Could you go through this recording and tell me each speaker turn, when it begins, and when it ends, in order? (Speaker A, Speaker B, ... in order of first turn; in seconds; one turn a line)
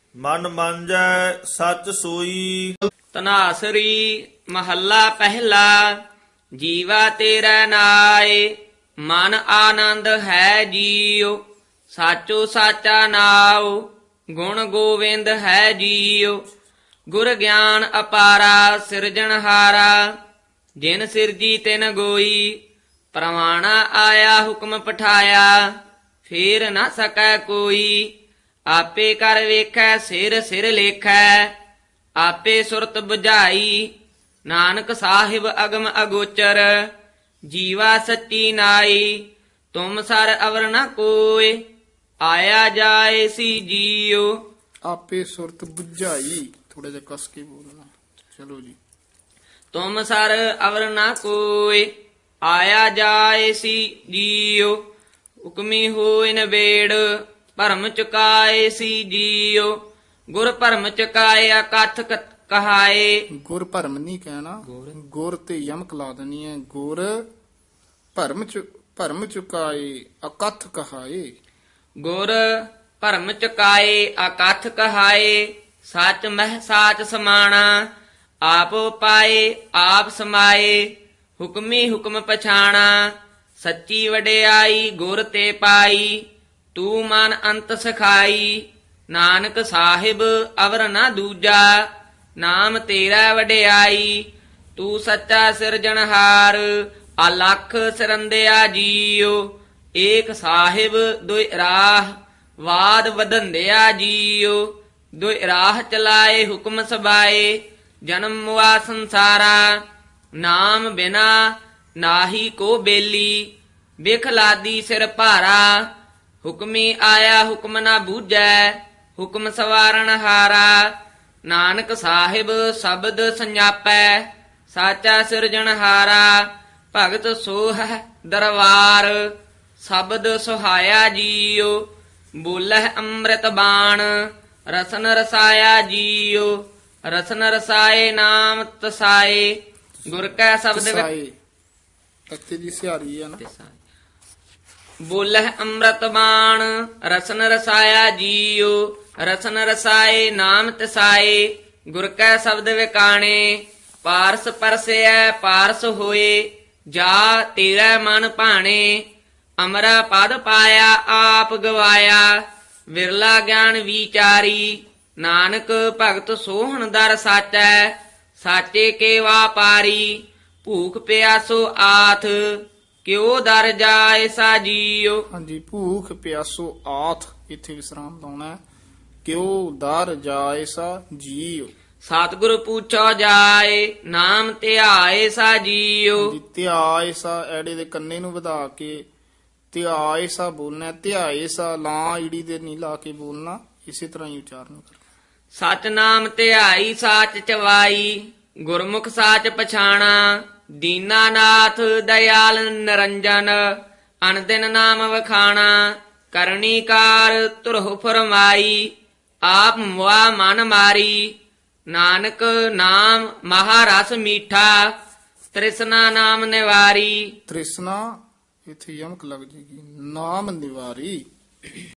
Speaker A: 0.2-2.8
Speaker B: 3.1-6.0
Speaker B: 6.6-11.4
Speaker B: 11.9-16.4
Speaker B: 17.1-20.1
Speaker B: 20.8-25.6
Speaker B: 26.2-28.1
Speaker B: 28.7-31.6
Speaker B: 32.2-33.9
Speaker B: 34.5-36.9
Speaker B: 37.5-41.7
Speaker B: 42.2-44.3
Speaker C: 44.9-48.8
Speaker B: 49.7-51.9
Speaker B: 52.4-54.8
Speaker B: 55.4-59.8
Speaker B: 60.3-63.2
Speaker C: 63.4-67.2
Speaker B: 64.7-64.9
Speaker C: 68.2-71.3
Speaker B: 72.0-77.9
Speaker B: 78.4-86.2
Speaker B: 86.7-109.8
Speaker B: 110.4-115.9
Speaker B: 116.4-120.9
Speaker B: 121.5-131.9
Speaker B: 132.4-141.1
Speaker C: 140.7-141.3
Speaker C: 142.3-143.4
Speaker B: 143.4-143.8
Speaker B: 145.1-159.1
Speaker B: 159.6-162.4
Speaker B: 162.9-175.3
Speaker C: 175.3-178.6
Speaker C: 179.2-181.7
Speaker B: 182.0-186.4
Speaker C: 186.2-189.1
Speaker C: 189.7-195.0
Speaker B: 195.6-208.9
Speaker B: 209.4-211.3
Speaker B: 211.9-214.9
Speaker B: 215.5-217.4
Speaker C: 217.5-221.2